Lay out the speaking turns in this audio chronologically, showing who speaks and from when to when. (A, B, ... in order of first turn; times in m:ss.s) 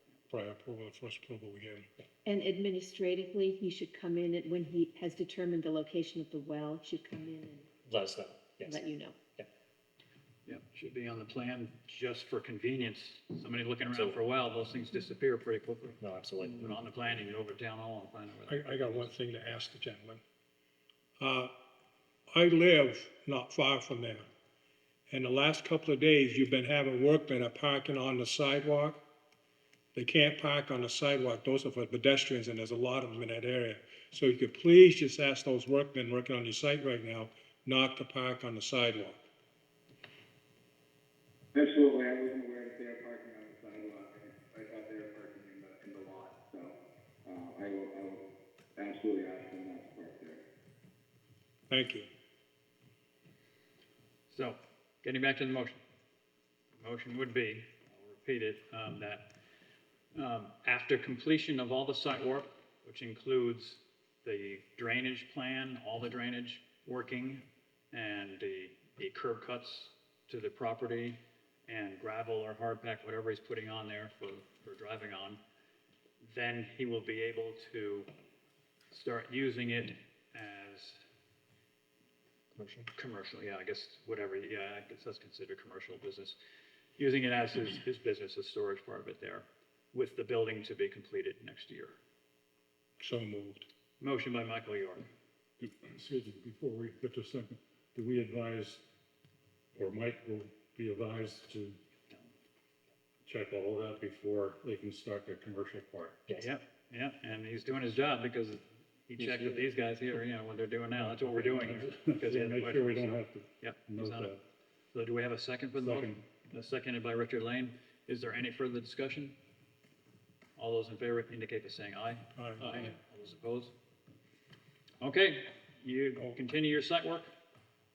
0:00.3-0:01.9 A
0:02.2-0:07.7 B
0:07.8-0:08.8 C
0:08.6-0:09.1 B
0:10.4-0:19.1 D
0:13.9-0:14.2 C
0:16.0-0:16.8 C
0:18.5-0:20.2 A
0:21.2-0:21.5 A
0:22.3-0:24.3 A
0:25.1-0:29.0 A
0:29.9-0:39.3 A
0:41.5-0:50.4 E
0:51.7-0:52.1 A
0:54.3-0:55.8 D
0:56.8-0:59.3 D
1:00.1-1:15.4 D
1:16.2-1:18.1 D
1:18.9-1:21.0 D
1:22.6-1:22.9 C
1:23.0-1:26.4 D
1:27.0-1:32.0 D
1:33.0-1:33.7 A
1:34.0-1:35.1 D
1:35.6-1:38.8 F
1:39.7-1:41.8 F
1:43.2-1:46.2 F
1:46.4-1:54.4 D
1:49.2-1:49.6 F
1:50.9-1:54.4 F
1:54.9-1:59.4 D
1:55.7-1:56.2 F
2:00.6-2:03.7 D
2:02.4-2:02.7 A
2:05.0-2:07.3 D